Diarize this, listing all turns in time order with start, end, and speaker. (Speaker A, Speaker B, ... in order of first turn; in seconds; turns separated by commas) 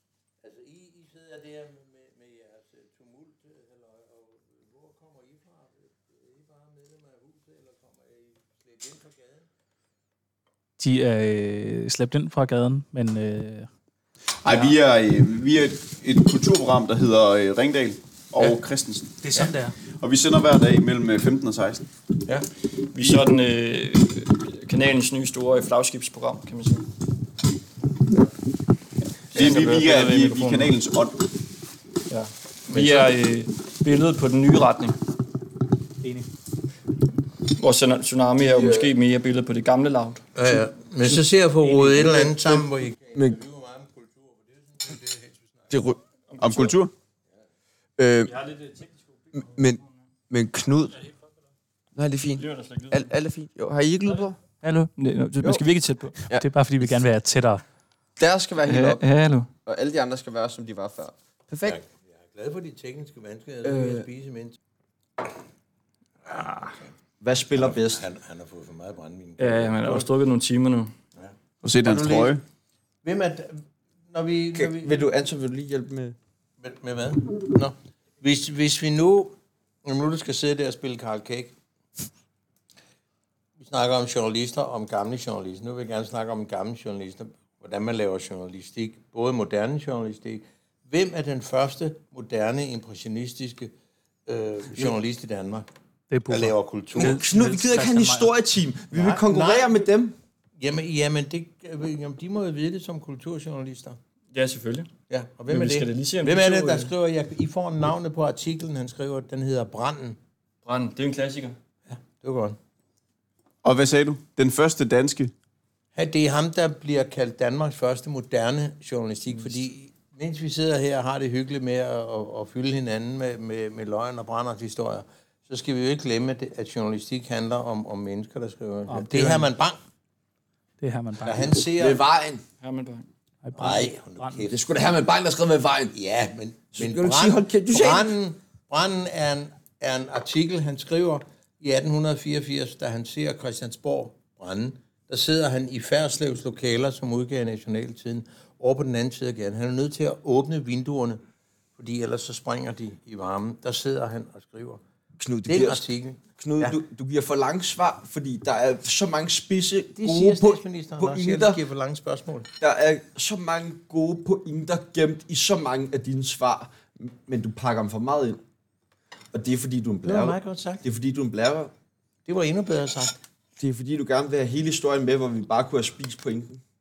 Speaker A: 0.4-9.5, Speaker B: 10.8-13.7, Speaker C: 14.4-21.8, Speaker B: 14.5-14.8, Speaker B: 19.2-19.8, Speaker D: 22.3-26.9, Speaker D: 29.3-30.8, Speaker C: 29.3-31.2, Speaker D: 32.1-35.0, Speaker A: 32.7-33.1, Speaker D: 37.5-40.2, Speaker E: 38.4-38.9, Speaker A: 40.4-45.7, Speaker E: 42.0-43.4, Speaker E: 45.7-46.0, Speaker D: 46.3-46.7, Speaker C: 46.4-46.9, Speaker E: 48.0-48.3, Speaker D: 48.3-48.9, Speaker E: 49.4-51.0, Speaker E: 52.0-54.4, Speaker D: 52.4-53.1, Speaker D: 54.6-56.2, Speaker B: 56.3-57.6, Speaker E: 58.2-59.0, Speaker D: 58.6-59.5, Speaker E: 59.6-61.8, Speaker A: 61.7-64.6, Speaker E: 63.6-64.1, Speaker A: 66.3-66.9, Speaker E: 67.2-68.0, Speaker A: 67.5-70.1, Speaker D: 69.4-70.9, Speaker A: 71.2-72.4, Speaker C: 71.6-72.4, Speaker A: 73.0-75.1, Speaker E: 74.5-76.2, Speaker A: 76.6-81.5, Speaker A: 83.6-93.7, Speaker A: 94.3-95.7, Speaker B: 96.1-98.3, Speaker A: 96.3-97.2, Speaker E: 97.0-100.2, Speaker A: 98.9-99.9, Speaker A: 100.6-104.0, Speaker D: 104.3-104.9, Speaker A: 105.1-110.2, Speaker D: 105.5-106.9, Speaker D: 110.7-111.6, Speaker A: 111.9-112.6, Speaker C: 113.6-115.3, Speaker A: 116.0-129.8, Speaker B: 128.9-129.5, Speaker B: 130.8-131.5, Speaker A: 131.2-132.0, Speaker E: 131.8-132.4, Speaker D: 132.6-133.1, Speaker B: 133.4-134.5, Speaker A: 133.6-134.7, Speaker E: 134.5-135.9, Speaker A: 135.9-151.2, Speaker E: 136.8-138.2, Speaker A: 151.8-154.8, Speaker E: 155.2-155.8, Speaker A: 155.5-156.8, Speaker E: 156.4-161.6, Speaker A: 160.0-162.5, Speaker E: 162.6-168.4, Speaker E: 169.3-171.7, Speaker A: 170.1-170.8, Speaker A: 172.3-173.2, Speaker E: 173.6-176.6